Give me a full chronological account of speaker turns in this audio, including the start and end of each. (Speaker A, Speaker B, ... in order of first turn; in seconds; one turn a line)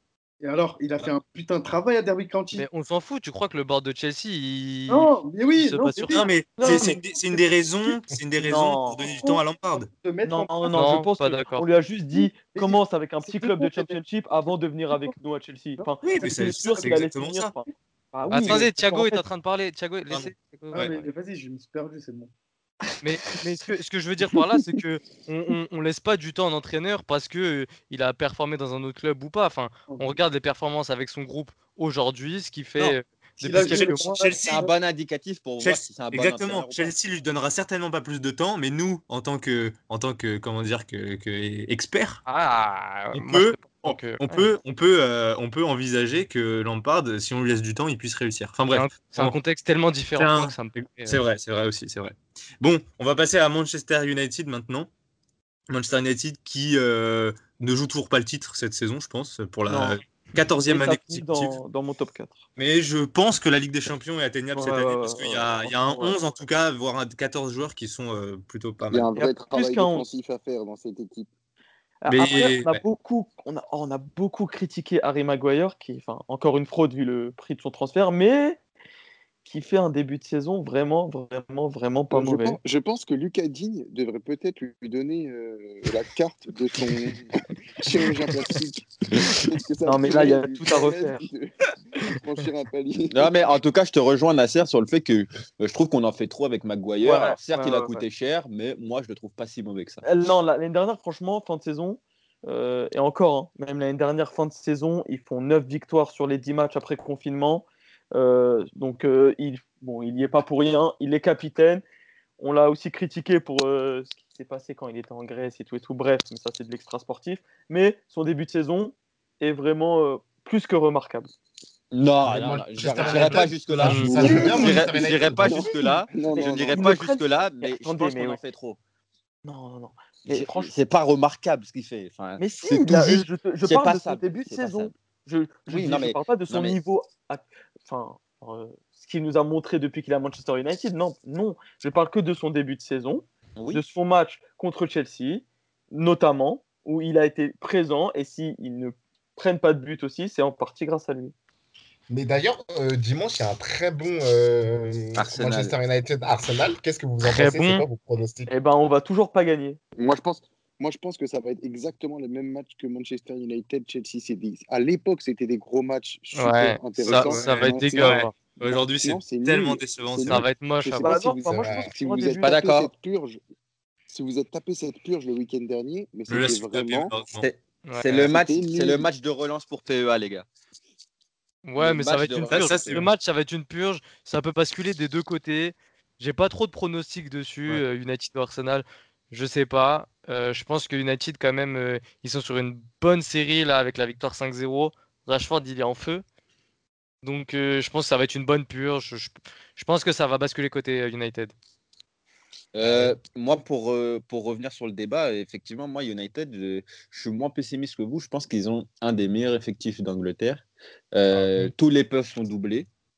Speaker A: 0.4-2.6
Speaker B: 2.5-6.1
Speaker A: 4.9-6.7
Speaker C: 6.0-9.9
Speaker D: 6.6-7.0
Speaker D: 8.4-9.1
Speaker A: 9.0-9.3
Speaker A: 10.0-10.9
Speaker D: 10.2-19.2
Speaker B: 10.7-11.6
Speaker A: 12.1-14.0
Speaker A: 15.8-16.9
Speaker C: 16.0-17.5
Speaker B: 18.3-21.1
Speaker C: 20.1-20.9
Speaker A: 20.7-22.3
Speaker B: 23.0-34.1
Speaker A: 29.9-30.2
Speaker A: 32.8-34.7
Speaker C: 33.6-34.7
Speaker E: 34.5-36.9
Speaker C: 35.6-42.2
Speaker B: 42.2-44.5
Speaker C: 43.1-49.4
Speaker B: 48.7-51.2
Speaker C: 50.1-50.5
Speaker C: 51.0-54.9
Speaker C: 55.7-61.6
Speaker D: 59.7-62.4
Speaker C: 62.5-69.1
Speaker D: 64.5-66.2
Speaker F: 68.9-71.3
Speaker D: 69.2-70.1
Speaker D: 72.0-78.6
Speaker C: 72.1-72.8
Speaker D: 79.4-82.6
Speaker F: 82.1-91.5
Speaker D: 89.8-91.2
Speaker F: 92.1-93.4
Speaker E: 93.1-100.0
Speaker D: 97.0-98.0
Speaker D: 100.0-111.8
Speaker D: 112.4-121.3
Speaker E: 121.9-128.8
Speaker G: 122.2-125.7
Speaker B: 123.8-124.1
Speaker F: 123.9-127.0
Speaker D: 124.2-124.8
Speaker D: 126.3-128.4
Speaker D: 129.4-130.7
Speaker E: 130.3-134.9
Speaker D: 132.4-151.3
Speaker E: 135.7-136.8
Speaker E: 143.6-143.8
Speaker G: 152.1-158.5
Speaker E: 155.1-155.8
Speaker B: 157.2-157.8
Speaker D: 158.5-159.8
Speaker F: 160.0-173.4
Speaker B: 166.3-168.3
Speaker C: 167.1-170.4
Speaker B: 170.2-171.2
Speaker D: 171.0-172.7
Speaker G: 171.5-171.9
Speaker E: 172.4-172.9
Speaker F: 174.1-177.1
Speaker C: 176.3-177.5
Speaker E: 177.3-180.5
Speaker F: 178.1-179.1
Speaker B: 181.6-196.2
Speaker E: 181.8-183.0
Speaker C: 182.5-183.1
Speaker B: 197.2-201.5
Speaker E: 202.7-212.9